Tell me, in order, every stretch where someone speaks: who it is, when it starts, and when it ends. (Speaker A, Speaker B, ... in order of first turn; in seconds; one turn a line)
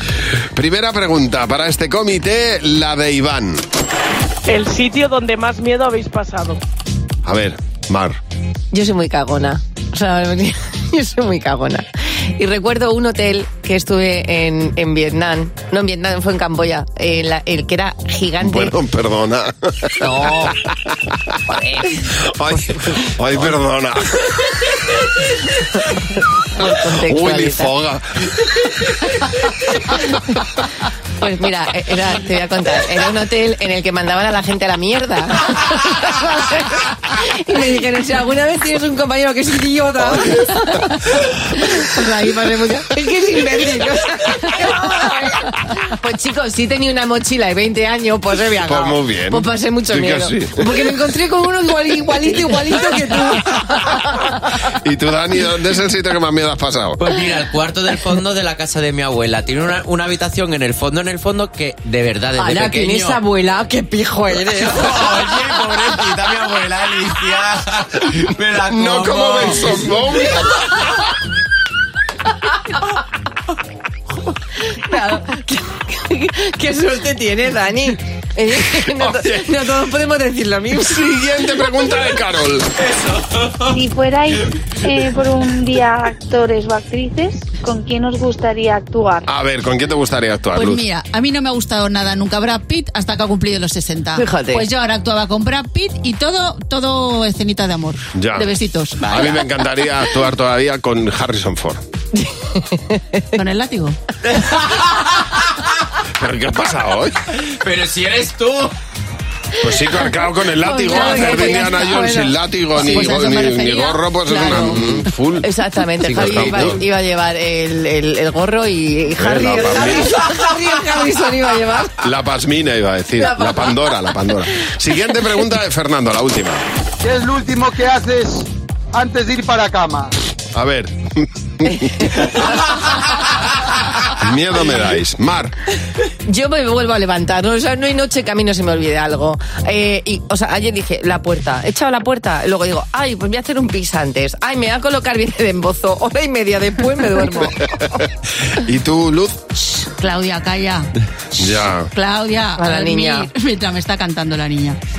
Speaker A: 0.2-3.6
Speaker B: 4.5-6.6
Speaker A: 7.2-8.2
Speaker C: 8.7-18.7
Speaker A: 18.4-21.3
Speaker C: 20.0-20.6
Speaker C: 21.4-23.1
Speaker A: 22.2-25.0
Speaker C: 25.5-27.7
Speaker A: 26.6-29.4
Speaker C: 29.1-30.6
Speaker C: 31.2-54.6
Speaker A: 48.6-50.9
Speaker A: 54.7-57.0
Speaker D: 57.0-63.2
Speaker C: 62.4-65.8
Speaker D: 64.5-69.9
Speaker A: 68.6-70.7
Speaker C: 74.5-81.6
Speaker A: 78.7-79.5
Speaker A: 80.9-82.7
Speaker D: 83.2-83.6
Speaker E: 83.7-89.3
Speaker A: 89.3-90.8
Speaker F: 90.5-99.0
Speaker C: 94.1-94.7
Speaker A: 98.2-101.8
Speaker D: 99.0-99.4
Speaker C: 102.1-103.3
Speaker F: 103.3-104.0
Speaker D: 104.3-104.8
Speaker A: 106.2-107.2
Speaker D: 107.3-108.7
Speaker A: 109.6-115.5
Speaker C: 110.6-112.3
Speaker F: 111.0-111.7
Speaker F: 112.7-114.9
Speaker C: 115.4-122.1
Speaker D: 116.0-116.8
Speaker A: 116.1-116.8
Speaker A: 119.2-120.1
Speaker A: 122.0-126.6
Speaker C: 123.2-124.1
Speaker G: 127.0-130.1
Speaker A: 130.5-130.9
Speaker A: 131.6-132.3
Speaker C: 131.7-133.0
Speaker A: 134.0-135.6
Speaker C: 136.2-148.0
Speaker A: 148.4-149.4
Speaker F: 149.6-154.8
Speaker A: 151.4-151.9
Speaker C: 152.6-153.3